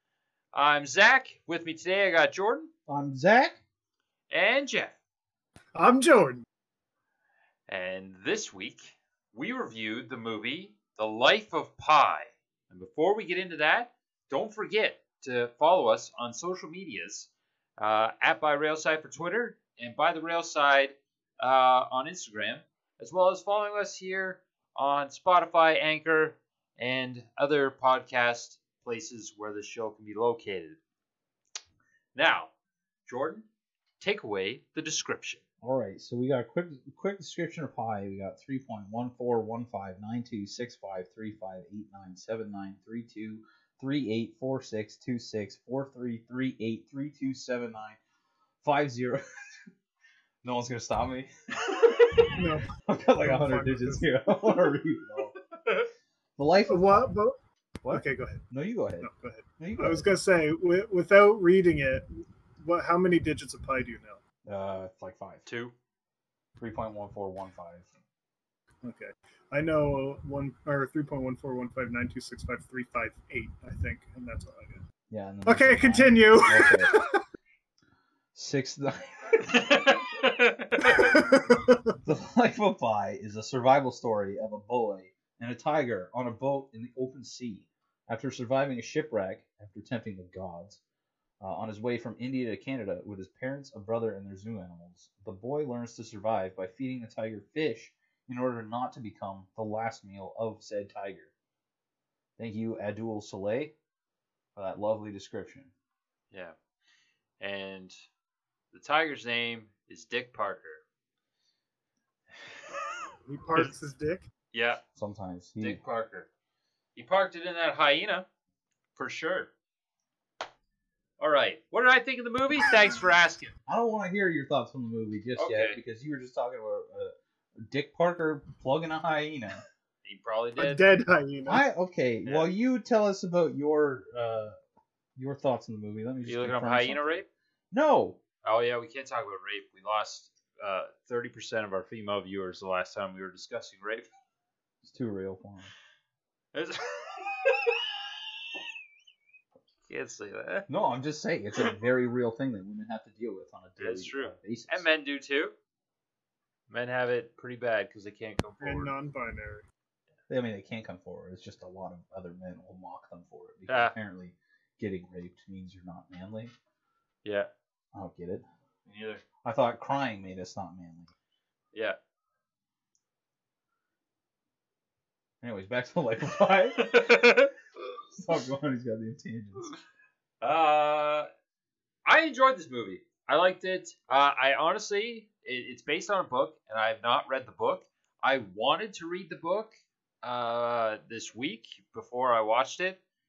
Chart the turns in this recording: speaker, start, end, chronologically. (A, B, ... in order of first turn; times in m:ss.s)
0:00.5-0:02.7 A
0:02.9-0:03.6 B
0:04.3-0:05.0 A
0:05.7-0:06.4 C
0:07.7-0:30.8 A
0:32.1-0:32.5 A
0:33.0-0:33.4 A
0:34.0-0:35.4 A
0:35.6-0:48.0 B
0:48.6-0:49.2 B
0:50.4-0:51.3 B
0:51.9-0:52.3 A
0:52.0-0:52.3 B
0:52.4-0:52.7 C
0:52.8-0:55.3 B
0:53.2-0:54.0 C
0:55.5-0:55.9 A
0:56.4-0:57.2 B
0:56.7-0:57.4 C
0:57.8-1:00.0 B
0:57.9-0:58.4 C
0:59.0-1:04.2 C
1:04.4-1:05.4 B
1:05.4-1:05.7 A
1:06.6-1:07.9 B
1:08.8-1:14.8 C
1:15.1-1:17.0 B
1:15.4-1:17.2 C
1:18.3-1:19.8 B
1:19.5-1:21.0 A
1:20.8-1:21.8 C
1:22.0-1:30.8 B
1:31.4-1:41.3 B
1:42.4-1:43.7 B
1:44.6-1:45.7 B
1:46.3-1:46.6 A
1:47.4-1:48.0 A
1:48.7-1:50.8 A
1:53.2-1:54.3 C
1:54.5-1:54.8 A
1:55.0-1:55.8 B
1:55.6-1:56.3 A
1:56.9-1:58.2 A
1:59.0-1:59.5 A
2:01.2-2:03.5 A
2:03.7-2:07.1 B
2:05.4-2:05.8 A
2:07.7-2:09.6 B
2:10.0-2:10.8 A
2:10.6-2:11.6 C
2:11.4-2:14.6 B
2:15.2-2:18.2 B
2:16.2-2:17.3 A
2:18.4-2:24.1 A
2:24.8-2:25.7 B
2:26.5-2:27.9 A
2:29.9-2:30.7 A
2:30.7-2:34.9 B
2:33.8-2:35.5 A
2:36.7-2:38.9 A
2:38.6-2:39.6 C
2:40.3-2:46.5 B
2:43.7-2:43.9 A
2:47.2-2:47.5 A
2:47.9-2:48.4 B
2:48.8-2:49.2 A
2:49.4-2:51.1 B
2:51.7-2:52.0 A
2:55.4-2:57.3 B
2:56.7-2:57.5 A
2:58.1-2:59.7 B
3:00.4-3:01.3 A
3:02.0-3:09.7 A
3:10.2-3:13.0 A